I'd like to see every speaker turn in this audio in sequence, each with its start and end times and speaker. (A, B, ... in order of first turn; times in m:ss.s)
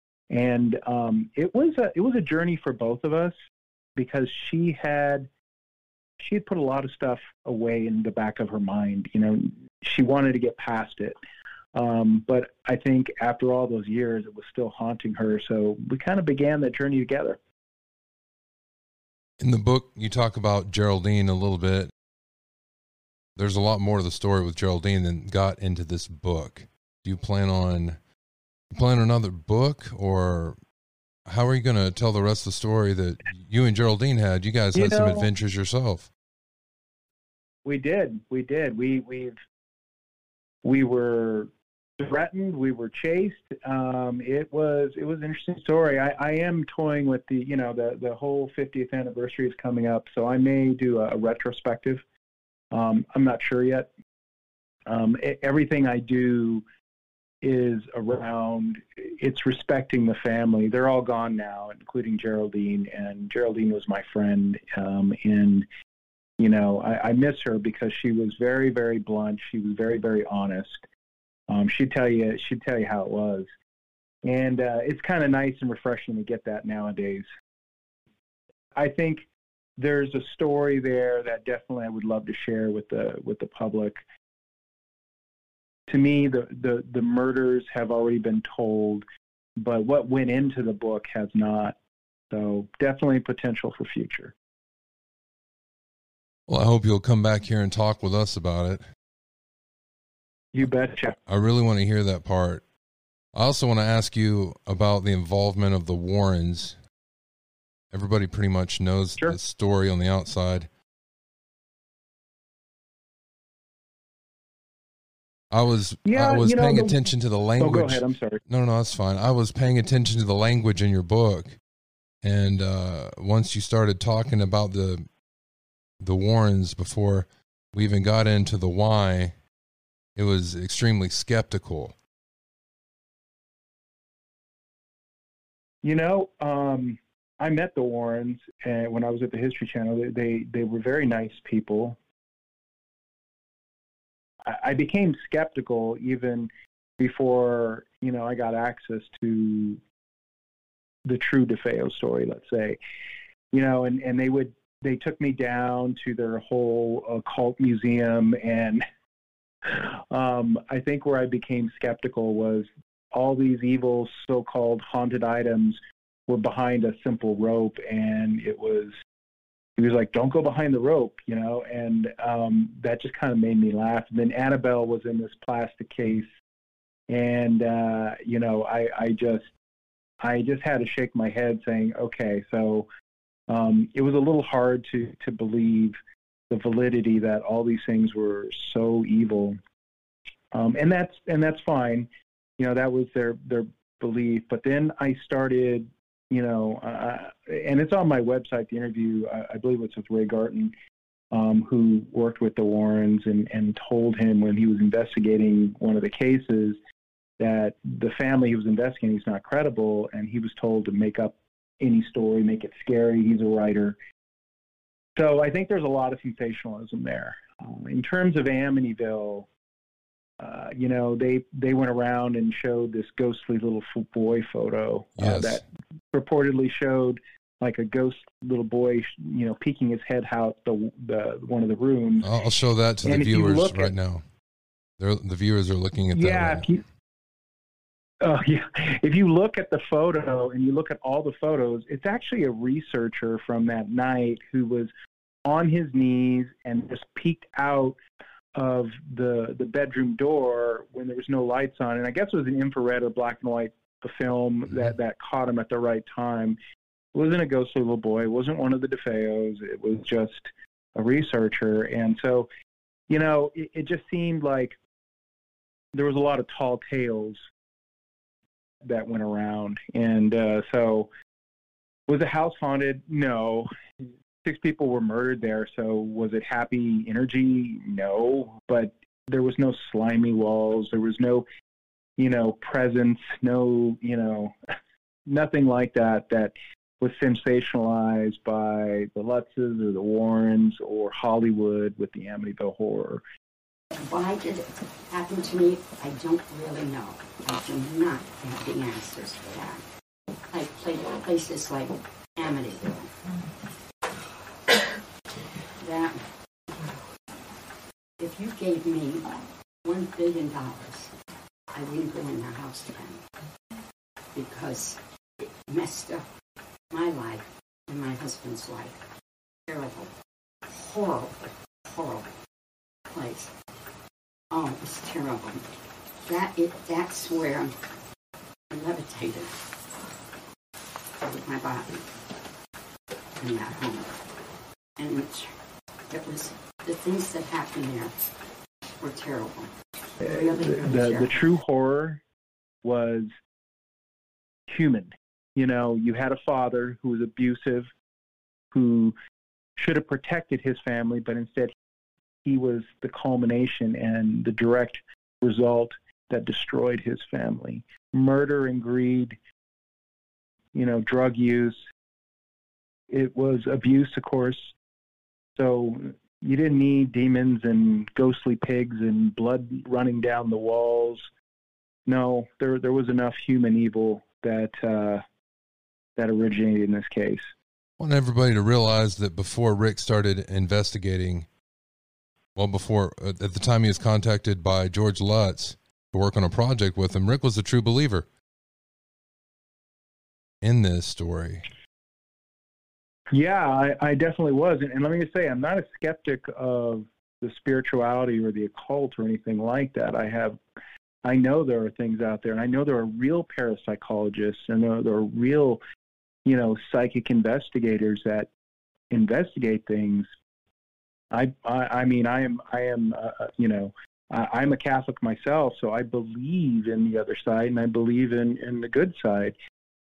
0:00.3-0:03.4 A
0:04.0-0:05.3 A
0:06.2-0:11.2 A
0:11.7-0:17.4 A
0:19.4-0:21.9 B
0:23.4-0:28.0 B
0:28.7-0:30.6 B
0:31.3-0:36.1 B
0:34.7-0:35.3 A
0:37.6-0:39.4 A
0:40.6-0:52.0 A
0:52.7-0:53.9 A
0:54.9-0:56.6 A
0:57.4-1:05.7 A
1:06.4-1:10.8 A
1:11.5-1:13.5 A
1:14.2-1:17.3 A
1:18.8-1:24.0 A
1:25.9-1:29.1 A
1:29.6-1:31.8 A
1:32.3-1:34.4 A
1:36.5-1:38.8 B
1:40.5-1:41.2 A
1:41.3-1:42.6 B
1:43.4-1:46.8 B
1:47.9-1:50.7 B
1:55.5-2:01.6 B
1:56.0-1:57.0 A
1:57.6-1:58.4 A
2:02.2-2:05.0 B
2:06.0-2:09.4 B
2:10.2-2:12.0 B
2:15.8-2:22.0 A
2:24.4-2:29.8 A
2:31.0-2:32.8 A
2:33.5-2:38.8 A
2:39.6-2:49.0 A
2:49.8-2:56.3 A
2:57.1-2:59.5 A
3:00.2-3:02.9 A
3:03.5-3:06.0 A
3:06.5-3:09.6 A
3:10.5-3:20.8 A
3:21.3-3:26.8 A
3:27.4-3:34.0 A
3:35.2-3:39.5 A
3:40.4-3:52.3 A
3:45.2-3:45.6 B
3:52.2-3:54.2 B
3:53.0-3:53.9 A
3:55.0-3:56.8 B
3:56.1-3:56.8 A
3:58.2-4:04.9 A
4:05.4-4:08.0 A
4:08.6-4:16.6 A
4:17.1-4:22.5 A
4:23.1-4:24.8 A
4:25.9-4:27.5 A
4:28.8-4:31.1 A
4:32.1-4:33.7 A
4:34.4-4:41.5 A
4:42.2-4:44.6 A
4:45.3-4:53.2 A
4:53.9-4:59.8 C
5:00.5-5:03.2 C
5:05.8-5:06.9 C
5:08.2-5:11.1 C
5:11.7-5:13.2 C
5:14.3-5:16.3 C
5:16.9-5:19.0 C
5:19.7-5:20.1 C
5:20.7-5:22.3 C
5:23.1-5:23.5 C
5:24.5-5:25.6 C
5:26.2-5:27.8 C
5:28.7-5:29.5 C
5:31.2-5:32.1 C
5:33.4-5:34.2 C
5:35.0-5:35.5 C
5:36.1-5:38.2 C
5:39.0-5:41.6 C
5:40.2-5:42.2 A
5:42.8-5:43.3 A
5:44.7-5:47.9 A
5:48.7-5:49.2 A
5:49.8-5:51.8 A
5:52.4-5:59.4 A
6:00.7-6:01.9 A
6:03.1-6:04.8 A
6:05.6-6:11.3 A
6:12.1-6:15.2 A
6:16.2-6:17.5 A
6:18.0-6:21.5 B
6:22.6-6:28.3 B
6:30.6-6:31.6 B
6:33.3-6:40.6 A
6:41.2-6:45.8 A
6:46.4-6:48.5 A
6:49.1-6:50.3 A
6:51.3-6:59.6 A